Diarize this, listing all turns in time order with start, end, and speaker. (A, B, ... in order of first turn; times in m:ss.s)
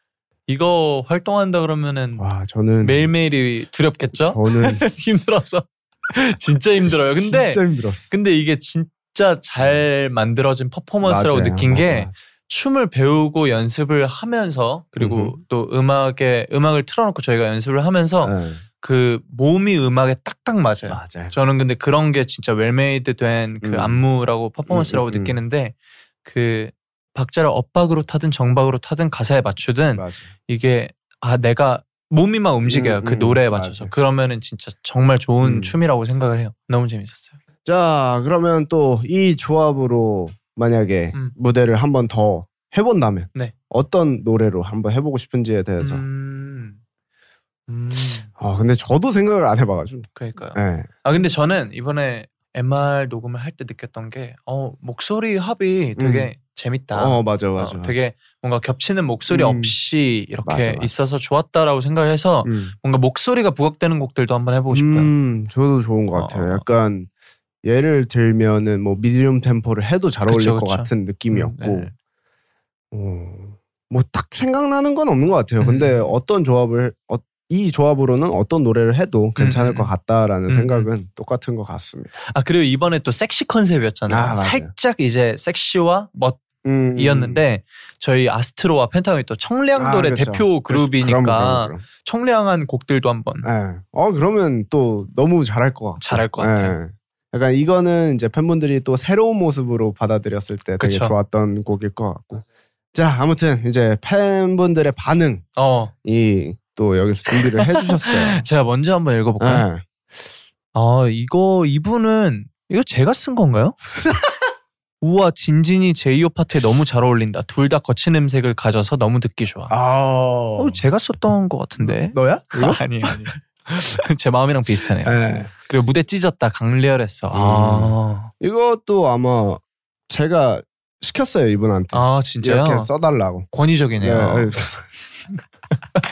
0:00.5-0:02.2 A
0:02.2-0:03.1 B
0:02.8-0:37.4 A
0:04.1-0:04.8 B
0:07.2-0:08.1 B
0:11.0-0:12.1 B
0:15.0-0:15.4 B
0:18.2-0:18.6 B
0:20.9-0:21.4 B
0:23.6-0:24.0 B
0:24.7-0:25.4 B
0:30.0-0:30.3 B
0:32.7-0:33.9 B
0:35.4-0:35.7 B
0:37.6-0:46.0 B
0:45.8-0:46.8 A
0:47.7-0:48.3 A
0:48.4-0:50.9 B
0:50.2-1:05.1 A
0:56.0-0:56.3 B
0:56.9-0:58.0 B
0:59.3-0:59.7 B
1:00.4-1:00.9 B
1:02.4-1:02.7 B
1:04.7-1:07.1 B
1:06.2-1:06.6 A
1:07.6-1:11.9 B
1:10.3-1:11.9 A
1:12.9-1:22.2 B
1:15.6-1:16.1 A
1:19.4-1:19.9 A
1:20.5-1:20.9 A
1:22.3-1:26.4 A
1:24.1-1:24.7 B
1:26.6-1:27.4 B
1:27.0-1:33.5 A
1:29.8-1:31.8 B
1:33.4-1:45.5 B
1:36.0-1:36.8 A
1:40.8-1:41.2 A
1:45.6-1:45.9 A
1:46.0-1:48.4 B
1:47.6-1:49.7 A
1:49.4-1:49.8 B
1:50.7-1:53.8 A
1:55.0-1:59.8 A
1:59.7-2:00.8 B
2:00.6-2:08.3 A
2:01.8-2:03.2 B
2:05.0-2:05.5 B
2:07.3-2:13.5 B
2:11.9-2:12.9 A
2:13.5-2:14.6 A
2:14.0-2:14.8 B